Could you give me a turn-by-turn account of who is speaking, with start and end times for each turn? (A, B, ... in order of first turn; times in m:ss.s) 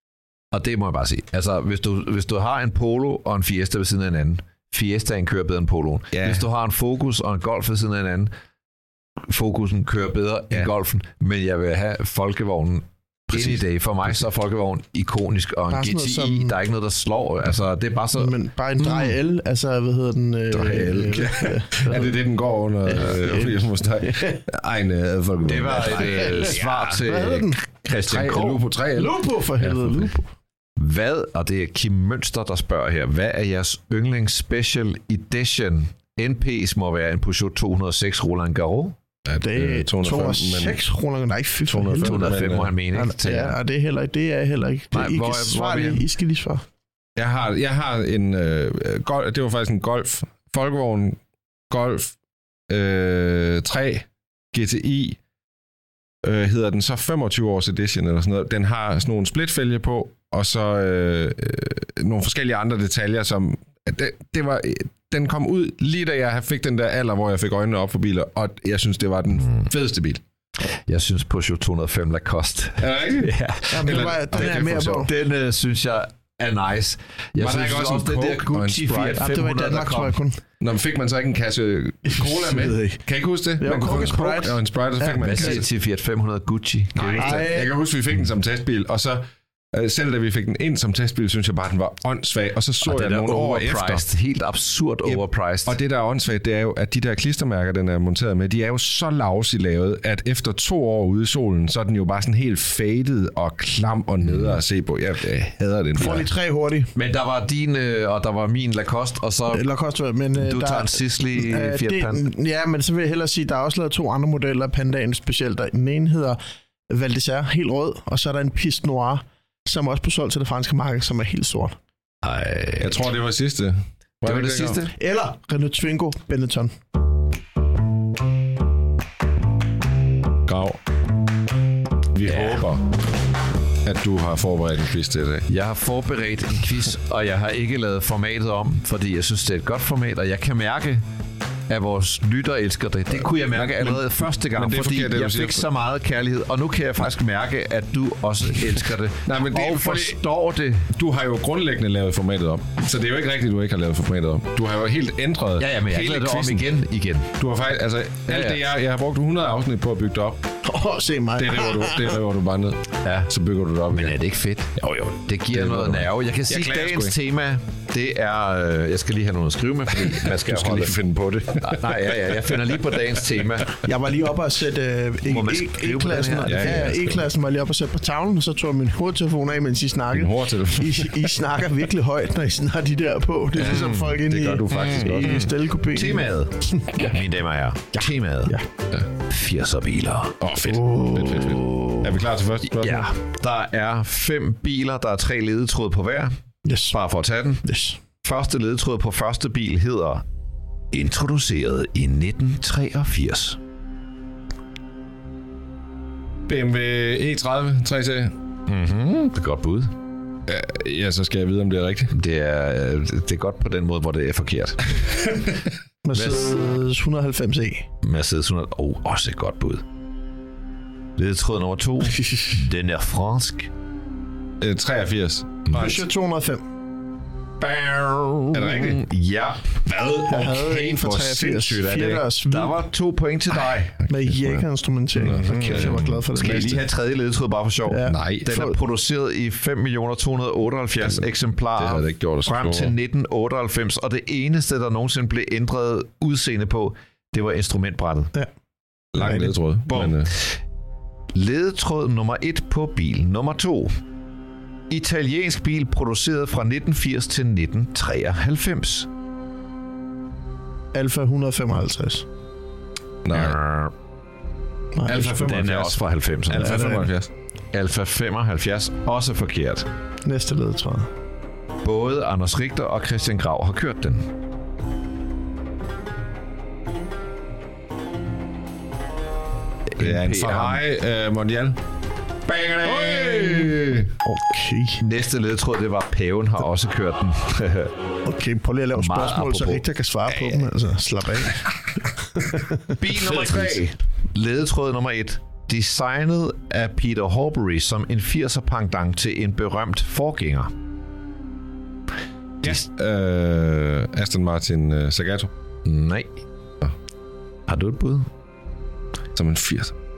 0:00.5-0:08.3 A
0:06.1-0:06.4 B
0:09.3-0:19.0 A
0:13.3-0:13.6 B
0:15.7-0:16.6 C
0:18.2-0:22.0 C
0:20.5-0:27.0 B
0:22.9-0:24.4 C
0:25.4-0:28.6 A
0:26.0-0:27.6 C
0:28.0-0:30.1 B
0:29.0-0:30.3 C
0:30.8-0:39.0 A
0:39.2-0:40.8 B
0:39.4-0:46.6 C
0:41.7-0:42.7 B
0:42.0-0:43.6 A
0:44.9-0:46.1 A
0:47.2-0:51.2 B
0:51.7-0:52.1 B
0:52.7-0:55.2 B
0:56.2-1:10.2 B
1:10.7-1:20.2 A
1:12.8-1:15.1 B
1:13.7-1:15.1 C
1:17.4-1:19.3 B
1:19.2-1:20.4 C
1:20.6-1:25.6 B
1:22.1-1:23.0 C
1:23.6-1:25.5 C
1:25.1-1:27.5 A
1:27.0-1:34.1 B
1:27.1-1:27.7 C
1:32.8-1:35.8 A
1:35.0-1:46.3 B
1:44.2-1:44.6 A
1:46.0-1:46.9 C
1:47.0-1:49.7 A
1:49.5-1:56.4 C
1:50.4-1:52.3 A
1:56.9-2:01.8 C
2:02.2-2:03.0 A
2:02.8-2:04.8 B
2:04.2-2:04.9 A
2:04.9-2:06.8 C
2:10.5-2:10.8 B
2:12.1-2:12.9 B
2:12.3-2:12.6 A
2:13.8-2:15.5 B
2:15.5-2:21.0 A
2:21.7-2:30.9 A
2:23.2-2:25.7 B
2:29.2-2:30.2 B
2:30.9-2:36.7 B
2:35.6-2:37.3 A
2:37.4-2:40.4 B
2:38.3-2:38.6 A
2:40.6-2:42.2 C
2:41.4-2:44.2 B
2:43.0-2:43.3 A
2:43.9-2:51.0 A
2:44.8-2:47.2 B
2:49.9-2:52.3 B
2:51.6-2:53.8 A
2:53.8-3:07.1 C
2:55.2-2:57.0 A
2:56.4-2:57.3 B
3:00.1-3:01.3 B
3:03.6-3:05.5 B
3:03.6-3:08.6 A
3:09.2-3:10.4 A
3:10.4-3:13.1 B
3:10.6-3:11.9 C
3:12.7-3:16.4 A
3:16.6-3:17.0 C
3:16.9-3:20.2 A
3:17.6-3:18.0 C
3:20.9-3:23.6 A
3:26.5-3:28.4 B
3:28.7-3:29.9 A
3:30.5-3:32.1 B
3:32.1-3:35.3 A
3:35.2-3:35.5 B
3:36.0-3:37.9 C
3:36.1-3:36.4 A
3:38.0-3:39.8 A
3:41.2-3:43.7 A
3:44.6-3:46.0 B
3:45.7-3:46.6 C
3:47.6-3:49.0 B
3:48.5-3:49.8 A
3:49.8-3:52.2 B
3:50.3-3:52.8 C
3:52.5-3:54.0 A
3:54.0-3:56.8 B
3:54.1-3:56.8 C
3:55.2-4:08.3 A
3:57.9-3:58.8 C
3:58.1-3:58.6 B
4:01.0-4:03.0 B
4:09.1-4:10.3 B
4:09.9-4:10.6 A
4:11.4-4:14.0 A
4:14.9-4:19.1 A
4:20.9-4:22.3 C
4:23.2-4:23.6 B
4:23.3-4:23.9 A
4:25.0-4:25.9 C
4:25.0-4:25.9 B
4:25.1-4:27.0 A
4:26.5-4:27.3 B
4:26.6-4:27.1 C
4:27.7-4:29.9 A
4:30.2-4:31.1 C
4:31.8-4:34.3 A
4:40.0-4:40.8 A
4:40.0-4:41.8 B
4:42.5-4:44.1 B
4:43.0-4:45.0 C
4:45.0-4:47.9 A
4:48.3-4:52.8 C
4:48.9-4:49.8 A
4:50.3-4:50.7 B
4:53.0-5:00.7 A
4:53.3-4:53.8 B
5:02.6-5:05.5 B
5:05.8-5:06.4 A
5:07.7-5:08.3 A
5:09.4-5:09.9 B